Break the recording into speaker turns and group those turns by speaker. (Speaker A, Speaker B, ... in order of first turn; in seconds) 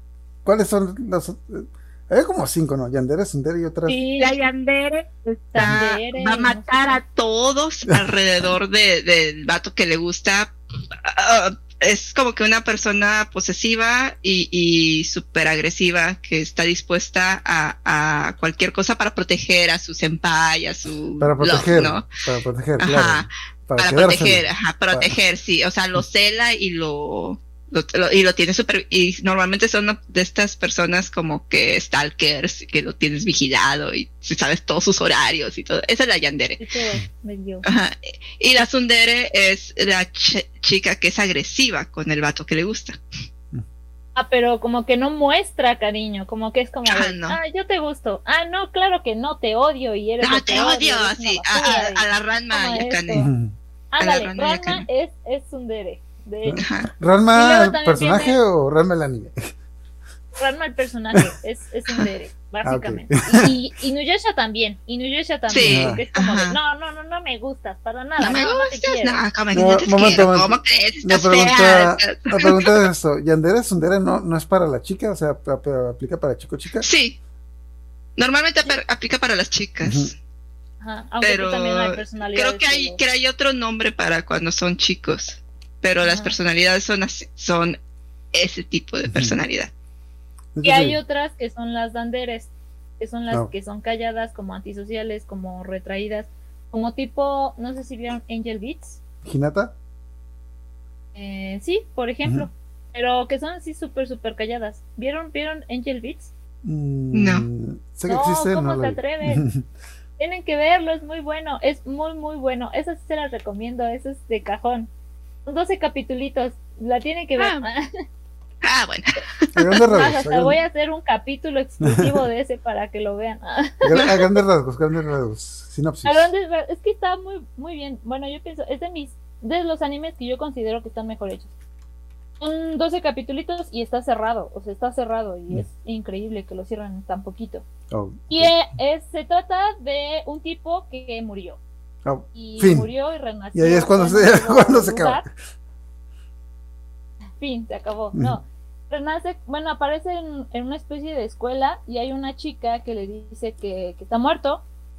Speaker A: 0.4-4.0, 21.2-25.1, 53.1-53.5, 56.4-59.5, 62.6-63.5, 65.7-66.0, 69.5-76.9, 79.8-80.1, 89.0-89.4, 90.5-91.0, 99.2-99.7, 106.6-109.6, 119.5-120.6, 121.8-122.1, 123.8-126.3, 137.9-138.5, 142.1-142.9, 143.5-145.3
Speaker B: 3.9-4.3, 5.5-7.0, 36.6-37.6, 44.1-53.3, 53.9-56.6, 57.3-58.4, 60.4-69.2, 80.8-83.0, 86.0-86.3, 90.6-99.0, 101.1-106.3, 108.1-109.4, 110.2-114.9, 115.5-117.9, 119.9-124.1, 126.0-131.5, 132.4-137.6, 138.3-141.6, 142.3-145.2, 147.4-154.6
Speaker C: 4.2-22.1, 22.8-36.6, 37.6-43.0, 46.9-47.4, 50.2-53.3, 54.0-54.8, 56.6-56.9, 65.5-66.5, 68.2-72.9, 76.8-77.2, 78.2-80.1, 81.2-87.8, 88.3-89.7, 107.1-107.5, 117.4-117.6, 118.6-119.8